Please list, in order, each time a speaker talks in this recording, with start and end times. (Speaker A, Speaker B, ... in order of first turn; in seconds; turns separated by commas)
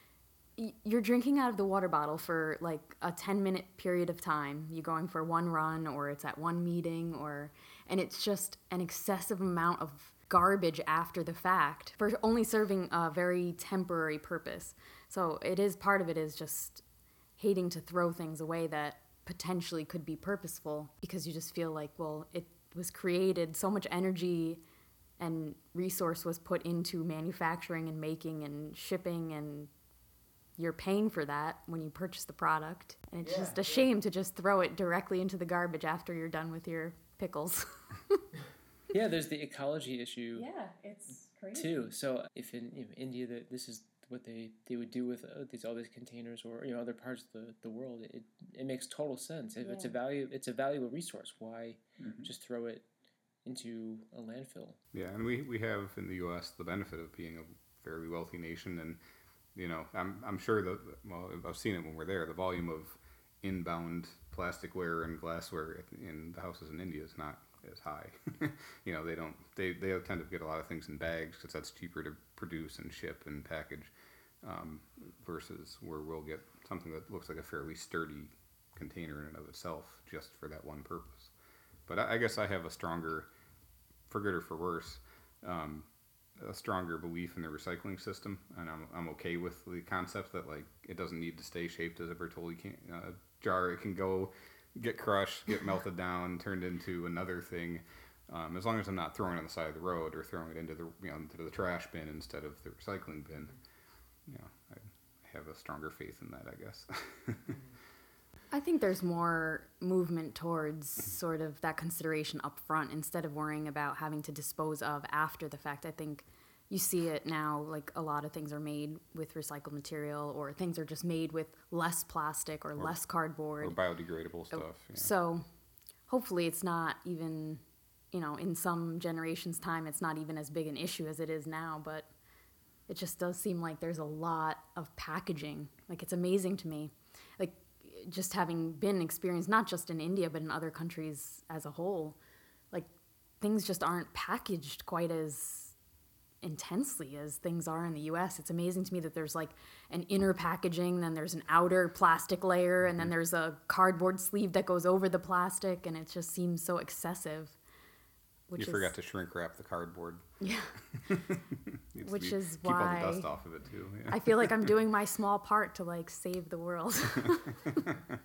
Speaker A: 0.6-16.8, Speaker A: 17.4-24.6, Speaker A: 25.2-29.7, Speaker A: 30.6-38.2, Speaker B: 33.2-33.8, Speaker B: 38.9-40.5, Speaker A: 40.3-41.7, Speaker B: 41.5-52.8, Speaker A: 49.6-49.9, Speaker B: 53.4-54.8, Speaker C: 54.9-59.0, Speaker C: 59.5-73.9, Speaker C: 74.4-81.3, Speaker C: 81.9-83.3, Speaker C: 84.1-103.5, Speaker C: 104.3-107.6, Speaker A: 108.5-123.8, Speaker C: 123.6-125.1, Speaker A: 124.5-125.4, Speaker A: 126.1-132.1, Speaker A: 132.9-142.2, Speaker A: 143.4-145.7, Speaker A: 146.4-157.6, Speaker A: 158.5-158.9, Speaker C: 158.6-160.2, Speaker A: 160.4-160.7, Speaker C: 161.0-161.3, Speaker C: 161.9-164.7, Speaker A: 162.0-163.3, Speaker A: 164.1-167.8